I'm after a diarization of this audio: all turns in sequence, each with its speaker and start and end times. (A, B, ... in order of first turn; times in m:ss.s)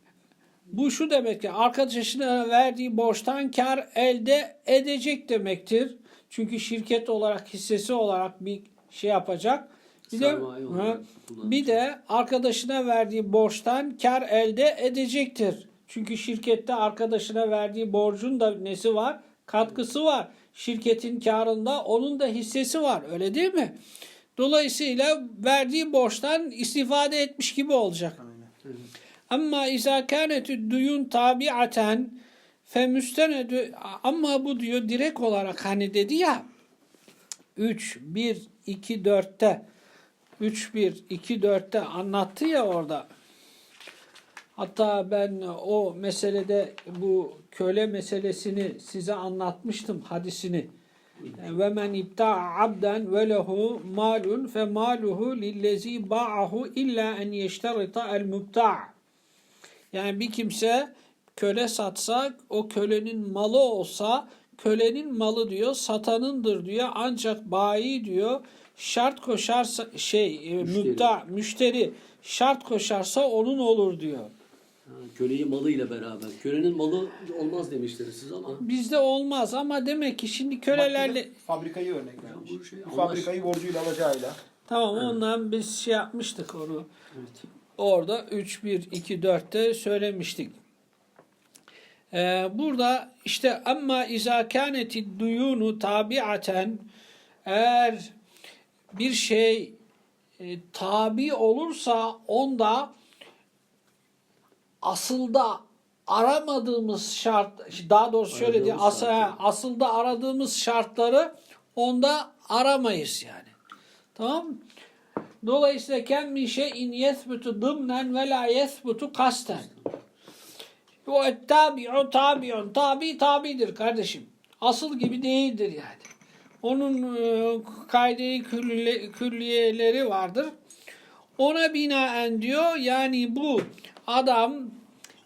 0:00.7-0:23.8 A
0:10.1-0:11.8 B
0:24.4-0:28.2 A
0:28.2-0:28.5 C
0:29.3-0:36.4 A
0:37.6-0:39.6 A
0:40.4-0:43.1 A
0:44.6-0:50.7 A
0:51.2-0:51.6 B
0:51.4-0:58.9 A
0:59.9-1:14.3 A
1:10.6-1:11.1 B
1:14.8-1:18.6 B
1:18.6-1:21.3 A
1:20.7-1:24.4 C
1:22.2-1:23.4 B
1:24.7-1:26.9 A
1:27.1-1:27.4 B
1:27.8-1:30.5 A
1:32.1-1:36.8 A
1:37.4-1:38.1 A
1:38.9-1:39.7 A
1:40.4-1:42.9 A
1:44.8-1:53.5 A
1:48.3-1:49.3 B
1:54.1-1:54.6 A
1:55.4-1:59.7 A
1:59.5-1:59.8 B
2:01.0-2:06.1 A
2:06.6-2:10.5 A
2:11.4-2:14.7 A